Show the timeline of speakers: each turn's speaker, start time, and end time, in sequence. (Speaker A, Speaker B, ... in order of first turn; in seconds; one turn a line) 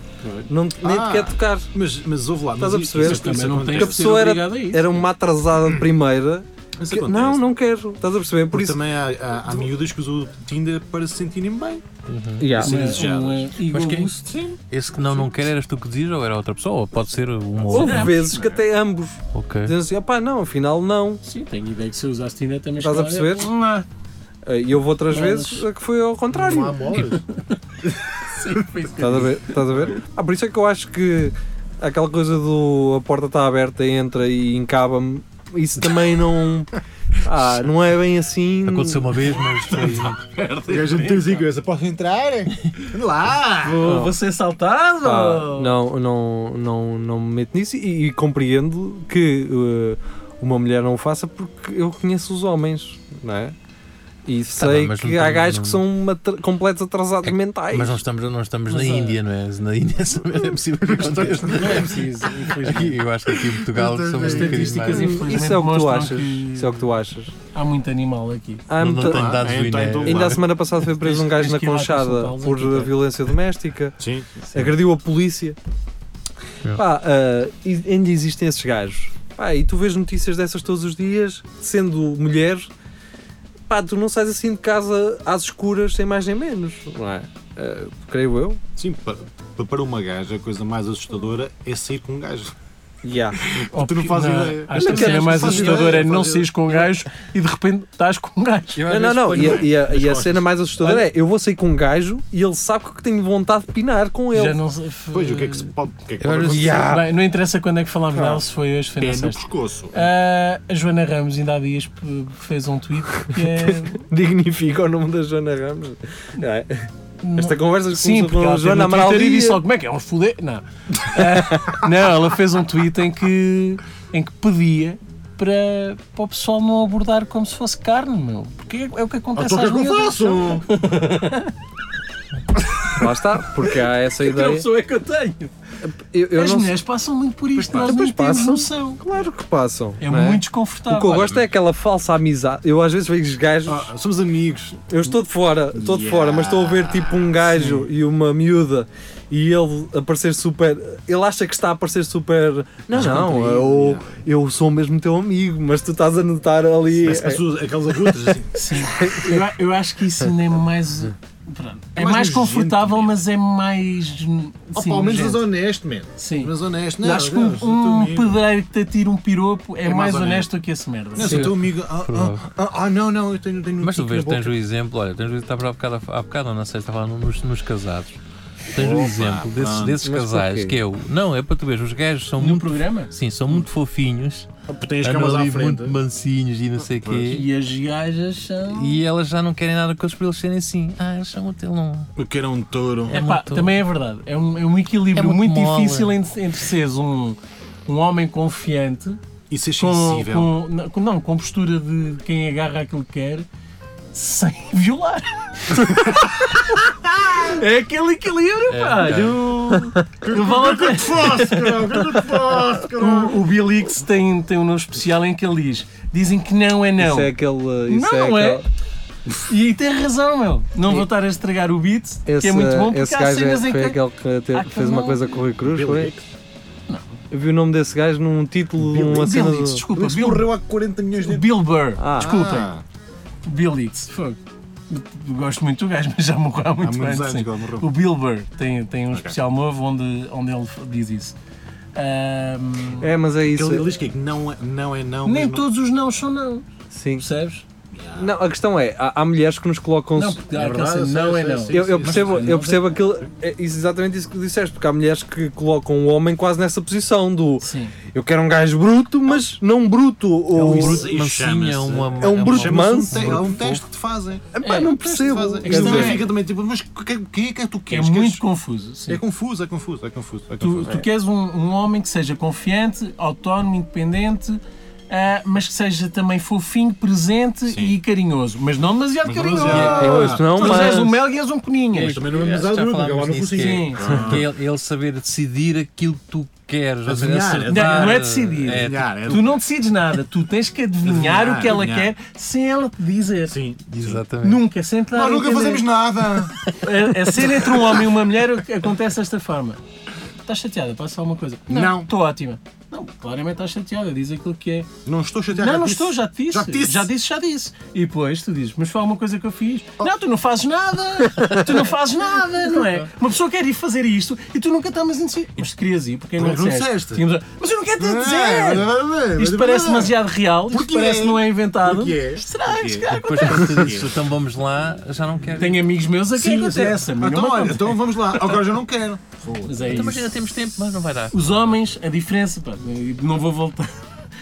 Speaker A: 0.2-0.5
Speaker B: 0.5-1.7
Speaker C: 0.8-4.2
Speaker B: 2.6-8.8
Speaker A: 3.0-5.0
Speaker C: 6.8-7.4
Speaker C: 8.5-11.8
Speaker D: 12.1-12.5
Speaker B: 12.4-13.0
Speaker C: 12.6-13.5
Speaker A: 12.6-14.3
Speaker D: 13.7-14.2
Speaker C: 14.2-14.6
Speaker D: 14.7-18.2
Speaker B: 17.7-21.2
Speaker A: 17.7-18.5
Speaker D: 19.3-19.7
Speaker A: 21.2-23.9
Speaker B: 22.8-23.5
Speaker B: 24.4-27.0
Speaker A: 25.1-25.6
Speaker C: 26.3-27.2
Speaker A: 26.9-29.6
Speaker B: 29.0-39.2
Speaker D: 38.6-40.2
Speaker A: 39.7-41.5
Speaker C: 40.7-43.8
Speaker A: 43.6-45.8
Speaker B: 43.8-44.1
Speaker B: 45.0-53.5
Speaker B: 54.2-58.0
Speaker D: 54.5-55.8
Speaker D: 57.2-62.0
Speaker A: 58.7-59.2
Speaker C: 60.8-62.0
Speaker A: 61.4-63.0
Speaker D: 62.5-65.2
Speaker C: 63.4-64.8
Speaker A: 64.2-66.8
Speaker B: 64.9-67.3
Speaker A: 67.5-68.6
Speaker B: 68.7-69.4
Speaker D: 68.8-70.4
Speaker C: 69.0-70.4
Speaker B: 70.0-74.0
Speaker A: 70.8-73.0
Speaker C: 74.0-74.5
Speaker B: 74.5-75.6
Speaker B: 76.7-82.7
Speaker B: 83.7-88.6
Speaker C: 88.8-92.5
Speaker B: 93.0-93.4
Speaker C: 93.4-96.5
Speaker A: 93.7-98.8
Speaker B: 94.7-96.0
Speaker D: 98.8-99.7
Speaker B: 98.9-104.6
Speaker C: 99.4-101.0
Speaker A: 104.3-105.7
Speaker C: 105.1-106.9
Speaker D: 106.2-107.0
Speaker A: 106.6-114.0
Speaker B: 108.1-108.4
Speaker C: 109.0-110.0
Speaker B: 113.3-119.6
Speaker A: 117.2-131.5
Speaker B: 121.2-121.8
Speaker C: 129.3-130.7
Speaker B: 132.9-134.7
Speaker A: 134.2-135.5
Speaker B: 135.8-136.8
Speaker A: 136.3-139.0
Speaker C: 137.6-137.9
Speaker B: 137.6-143.9
Speaker A: 140.0-141.3
Speaker C: 143.7-144.8
Speaker B: 144.9-157.4
Speaker C: 145.7-147.6
Speaker A: 147.6-147.8
Speaker C: 152.9-154.1
Speaker A: 153.0-153.3
Speaker C: 157.0-158.5
Speaker B: 158.0-159.5
Speaker A: 158.5-165.4
Speaker C: 161.9-163.1
Speaker C: 164.7-168.4
Speaker A: 166.2-171.5
Speaker C: 169.8-170.5
Speaker C: 171.1-174.5
Speaker D: 171.2-172.4
Speaker D: 173.8-178.2
Speaker D: 178.7-184.5
Speaker C: 178.7-180.0
Speaker B: 180.0-180.8
Speaker A: 182.4-183.1
Speaker C: 184.7-186.0
Speaker D: 185.0-187.4
Speaker C: 186.9-187.4
Speaker A: 187.3-189.0
Speaker D: 188.7-192.1
Speaker C: 192.2-193.2
Speaker D: 193.1-193.8
Speaker A: 193.1-199.2
Speaker D: 195.1-196.1
Speaker C: 199.5-200.5
Speaker A: 199.8-203.4
Speaker A: 204.1-217.3
Speaker D: 208.7-209.4
Speaker B: 209.7-210.0
Speaker C: 210.2-213.4
Speaker B: 217.0-218.6
Speaker A: 217.9-218.6
Speaker A: 219.4-224.0
Speaker B: 222.2-226.1
Speaker A: 224.5-225.3
Speaker C: 225.6-226.2
Speaker A: 226.9-227.2
Speaker B: 227.3-229.8
Speaker C: 228.8-229.3
Speaker A: 229.0-230.5
Speaker C: 229.9-231.5
Speaker A: 231.2-232.7
Speaker B: 232.0-232.5
Speaker C: 232.2-232.8
Speaker A: 233.4-241.3
Speaker C: 236.8-237.9
Speaker A: 241.9-243.1
Speaker B: 243.0-243.9
Speaker C: 243.4-245.7
Speaker A: 245.2-246.6
Speaker B: 246.9-247.2
Speaker A: 247.2-247.6
Speaker C: 247.9-248.3
Speaker B: 248.2-250.4
Speaker A: 250.1-252.9
Speaker C: 250.5-252.6
Speaker B: 251.7-261.1
Speaker A: 257.6-257.9
Speaker D: 260.5-263.8
Speaker C: 260.6-268.4
Speaker B: 262.2-263.6
Speaker B: 264.5-266.2
Speaker A: 264.6-266.3
Speaker A: 267.9-269.2
Speaker C: 269.1-271.1
Speaker A: 270.6-282.2
Speaker C: 277.7-278.0
Speaker C: 279.2-280.9
Speaker D: 279.6-280.4
Speaker B: 279.9-281.2
Speaker D: 281.9-289.4
Speaker C: 282.0-284.4
Speaker A: 283.6-284.2
Speaker C: 287.1-289.6
Speaker A: 287.7-293.6
Speaker C: 291.0-292.1
Speaker C: 293.5-294.2
Speaker D: 293.9-294.6
Speaker A: 294.4-295.9
Speaker C: 295.1-296.7
Speaker A: 296.7-299.8
Speaker C: 297.4-298.1
Speaker A: 300.4-304.9
Speaker C: 301.7-302.1
Speaker C: 305.0-307.1
Speaker A: 305.5-323.9
Speaker C: 316.4-317.2
Speaker C: 318.0-324.1
Speaker D: 323.1-325.8
Speaker A: 325.6-328.6
Speaker C: 326.4-330.1
Speaker A: 329.6-330.3
Speaker D: 329.9-331.7
Speaker A: 331.3-333.9